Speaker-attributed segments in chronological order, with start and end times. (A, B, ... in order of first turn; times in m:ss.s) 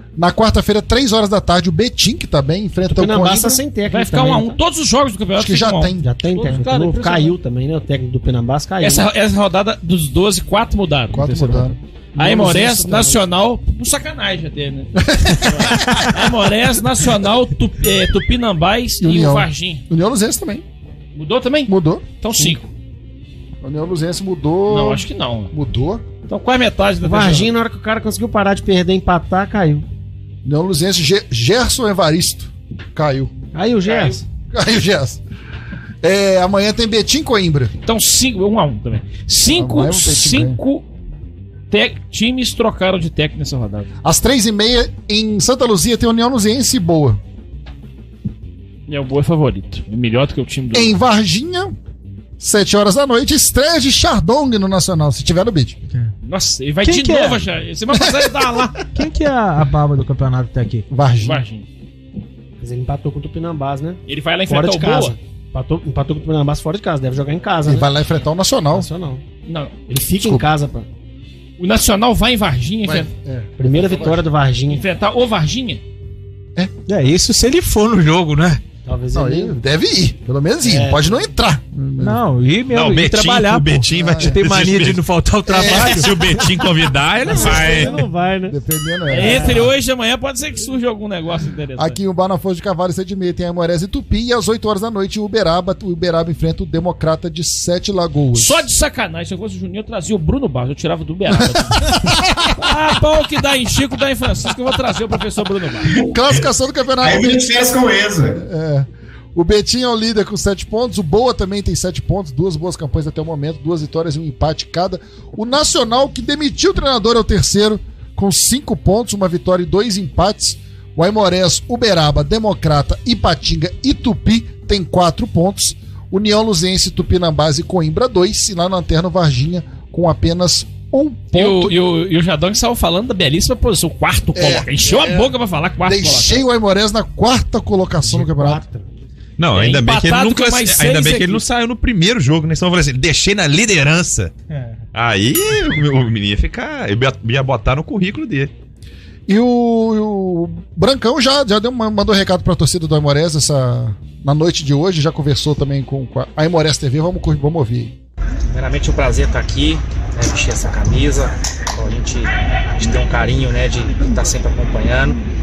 0:00.2-0:03.6 A
0:02.9-0:04.6 B
0:03.9-0:07.3 C
0:05.4-0:06.1 A
0:06.0-0:09.1 B
0:08.8-0:19.8 C
0:11.1-0:13.2 A
0:12.3-0:13.1 B
0:15.0-0:16.1 A
0:19.0-0:20.6 A
0:21.1-0:22.7 C
0:21.7-0:22.0 A
0:23.6-0:26.0 A
0:24.7-0:25.5 C
0:26.3-0:27.5 C
0:27.0-0:29.8 B
0:30.4-0:33.3 A
0:33.5-0:34.2 B
0:33.8-0:34.2 C
0:34.5-0:35.2 A
0:36.0-0:37.7 A
0:37.8-0:40.8 C
0:39.5-0:40.6 A
0:41.7-0:43.9 C
0:44.0-0:47.2 A
0:48.9-0:51.0 C
0:50.7-0:51.7 A
0:52.4-0:55.8 A
0:56.2-0:58.8 C
0:56.8-0:57.4 D
0:58.2-0:58.5 A
0:58.8-1:00.8 D
1:00.9-1:01.4 A
1:01.2-1:01.6 C
1:02.6-1:07.9 B
1:04.1-1:05.2 C
1:07.6-1:08.9 A
1:08.7-1:09.2 B
1:09.4-1:09.7 C
1:09.9-1:10.9 B
1:10.2-1:10.5 A
1:11.6-1:13.1 C
1:12.8-1:14.2 A
1:13.6-1:14.8 B
1:14.7-1:15.8 C
1:16.9-1:18.6 D
1:18.8-1:19.5 B
1:19.1-1:22.2 A
1:20.6-1:21.2 B
1:22.0-1:26.1 D
1:22.7-1:25.0 E
1:23.9-1:24.4 A
1:25.5-1:26.1 A
1:25.7-1:27.9 E
1:27.2-1:28.6 B
1:27.4-1:27.8 C
1:27.5-1:27.8 A
1:28.5-1:29.7 A
1:29.1-1:32.0 C
1:29.1-1:29.7 B
1:31.8-1:38.6 A
1:38.3-1:45.9 C
1:41.3-1:42.4 A
1:45.9-1:46.4 F
1:46.0-1:47.5 A
1:47.0-1:48.4 F
1:48.4-2:11.8 A
2:11.3-2:16.4 C
2:14.3-2:18.6 A
2:18.0-2:18.9 B
2:19.4-2:24.3 E
2:19.5-2:21.4 C
2:24.5-2:24.8 D
2:24.9-2:28.5 E
2:29.3-2:37.9 A
2:38.5-2:45.2 G